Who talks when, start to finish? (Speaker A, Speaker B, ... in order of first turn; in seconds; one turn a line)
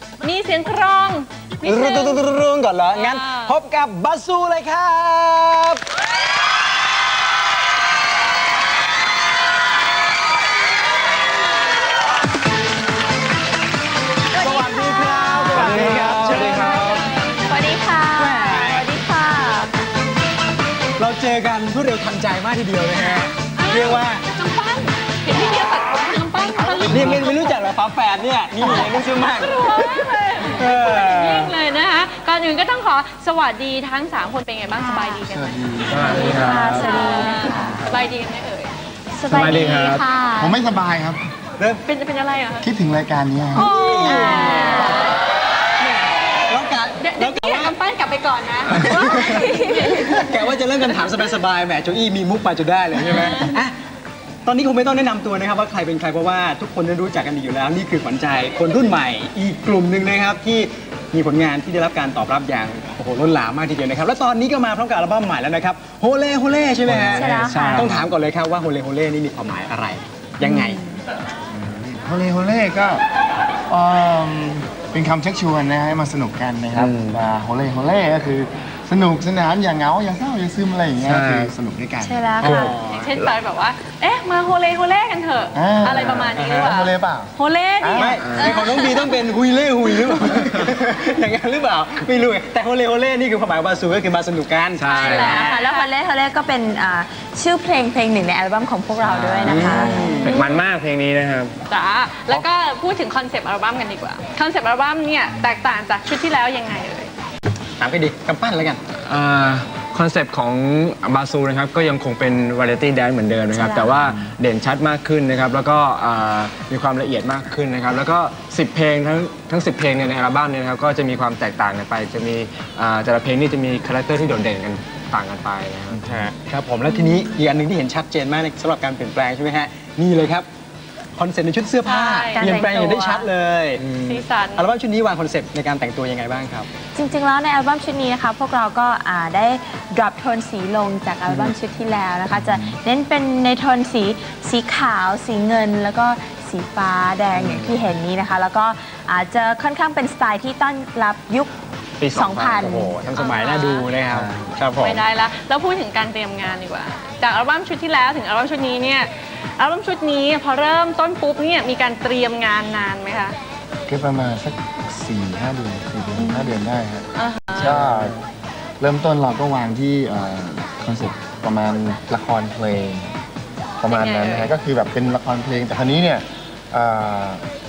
Speaker A: 0.2-2.2
Speaker B: 1.6-5.8
Speaker A: 2.9-3.5
Speaker C: 14.3-16.1
Speaker B: 14.3-17.1
Speaker D: 15.4-17.1
Speaker C: 16.6-19.7
Speaker B: 18.1-18.9
Speaker B: 21.0-24.2
Speaker A: 23.1-27.5
Speaker B: 26.9-31.5
Speaker A: 28.6-35.5
Speaker C: 34.8-35.2
Speaker E: 35.2-36.3
Speaker D: 35.9-37.0
Speaker C: 36.0-37.9
Speaker A: 36.1-38.7
Speaker D: 37.6-38.0
Speaker C: 39.1-40.6
Speaker D: 39.3-40.1
Speaker E: 39.3-41.2
Speaker A: 41.9-42.7
Speaker E: 42.6-43.7
Speaker A: 43.5-45.2
Speaker B: 43.8-45.1
Speaker C: 44.1-45.0
Speaker B: 46.5-47.8
Speaker A: 47.0-50.4
Speaker B: 48.7-53.8
Speaker A: 53.1-53.5
Speaker B: 54.5-70.8
Speaker D: 66.9-68.0
Speaker C: 67.1-67.9
Speaker C: 70.4-71.0
Speaker E: 71.5-73.0
Speaker E: 73.7-82.4
Speaker D: 76.7-77.2
Speaker D: 81.0-81.5
Speaker C: 82.0-82.8
Speaker B: 82.4-83.1
Speaker A: 82.5-89.0
Speaker E: 85.5-88.2
Speaker D: 86.0-86.3
Speaker B: 86.3-86.8
Speaker B: 88.0-95.6
Speaker D: 88.2-88.6
Speaker C: 88.3-89.2
Speaker D: 94.8-95.5
Speaker A: 94.8-95.9
Speaker C: 95.0-100.4
Speaker D: 99.0-101.6
Speaker B: 99.4-100.3
Speaker A: 100.0-100.6
Speaker A: 101.7-107.1
Speaker B: 107.8-108.8
Speaker D: 109.0-126.2
Speaker C: 113.5-114.2
Speaker B: 126.0-130.5
Speaker C: 126.9-127.2
Speaker B: 131.2-136.7
Speaker A: 131.8-132.6
Speaker C: 132.3-133.2
Speaker A: 134.0-134.7
Speaker C: 136.9-151.5
Speaker B: 141.3-141.6
Speaker E: 142.3-142.8
Speaker D: 147.3-147.9
Speaker D: 152.0-152.8
Speaker C: 152.1-152.9
Speaker B: 152.6-155.0
Speaker A: 153.2-153.8
Speaker D: 154.1-154.6
Speaker A: 154.8-163.4
Speaker E: 163.9-168.2
Speaker C: 166.2-166.6
Speaker A: 167.2-167.7
Speaker D: 167.6-168.2
Speaker E: 168.8-173.1
Speaker E: 173.8-177.4
Speaker A: 173.9-174.6